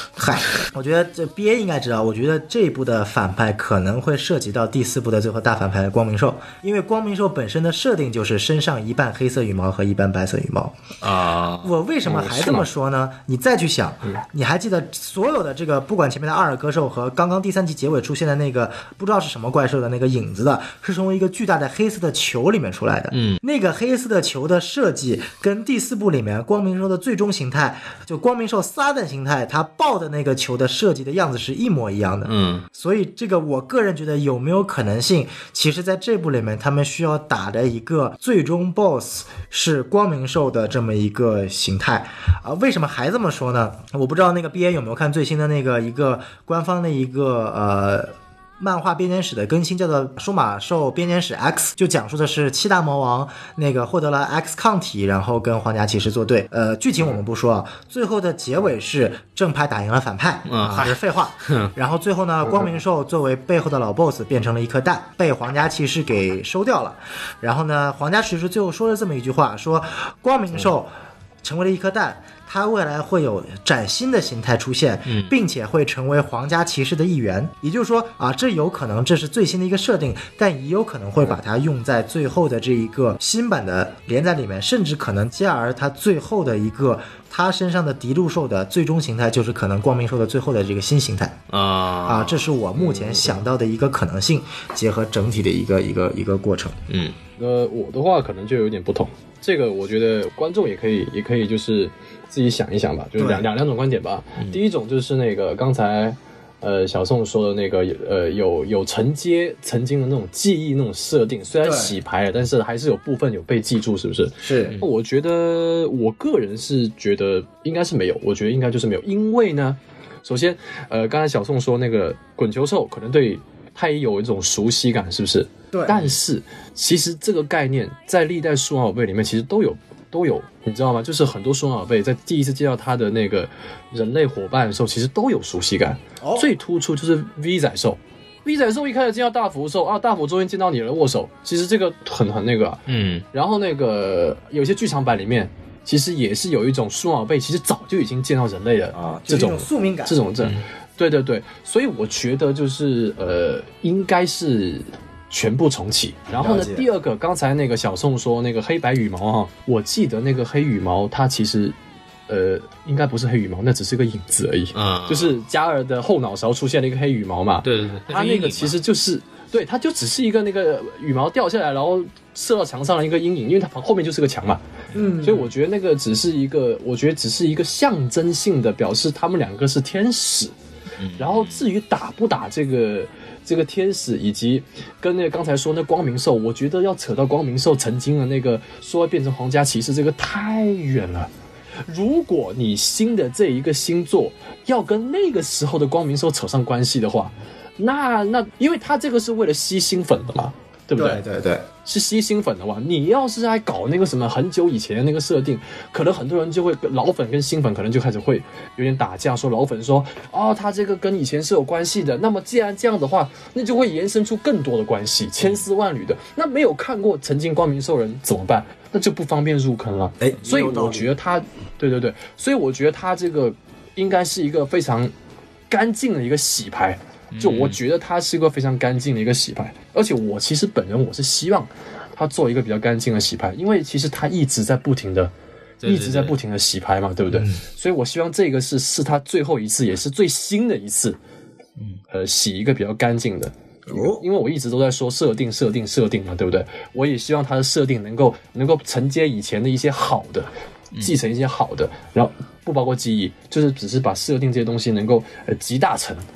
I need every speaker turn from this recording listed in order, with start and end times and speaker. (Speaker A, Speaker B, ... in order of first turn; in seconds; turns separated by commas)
Speaker A: 0.2-10.8, Speaker B: 11.0-11.7, Speaker A: 11.6-70.9, Speaker C: 12.0-12.7, Speaker B: 23.1-23.4, Speaker B: 32.2-32.6, Speaker B: 60.5-61.7, Speaker A: 71.4-91.4, Speaker B: 75.1-75.3, Speaker B: 91.5-92.4, Speaker A: 92.0-96.8, Speaker C: 92.8-93.3, Speaker B: 96.9-97.2, Speaker C: 97.4-142.8, Speaker A: 103.2-103.4, Speaker A: 111.6-111.9, Speaker A: 114.4-114.8, Speaker A: 125.7-126.1, Speaker A: 136.2-136.5, Speaker B: 142.9-143.2, Speaker C: 143.3-161.8, Speaker A: 148.9-150.2, Speaker A: 156.3-156.9, Speaker C: 162.3-174.6, Speaker B: 164.7-165.3, Speaker B: 167.6-168.8, Speaker A: 174.9-175.5, Speaker C: 175.2-180.5, Speaker B: 181.0-181.7, Speaker C: 181.2-191.3, Speaker C: 191.9-201.2, Speaker A: 200.9-201.7, Speaker C: 201.8-225.1, Speaker A: 220.2-221.1, Speaker C: 225.7-235.3, Speaker B: 227.3-227.8, Speaker B: 235.8-236.4, Speaker C: 235.8-241.2, Speaker C: 242.1-250.5, Speaker A: 243.9-244.2, Speaker C: 251.0-256.2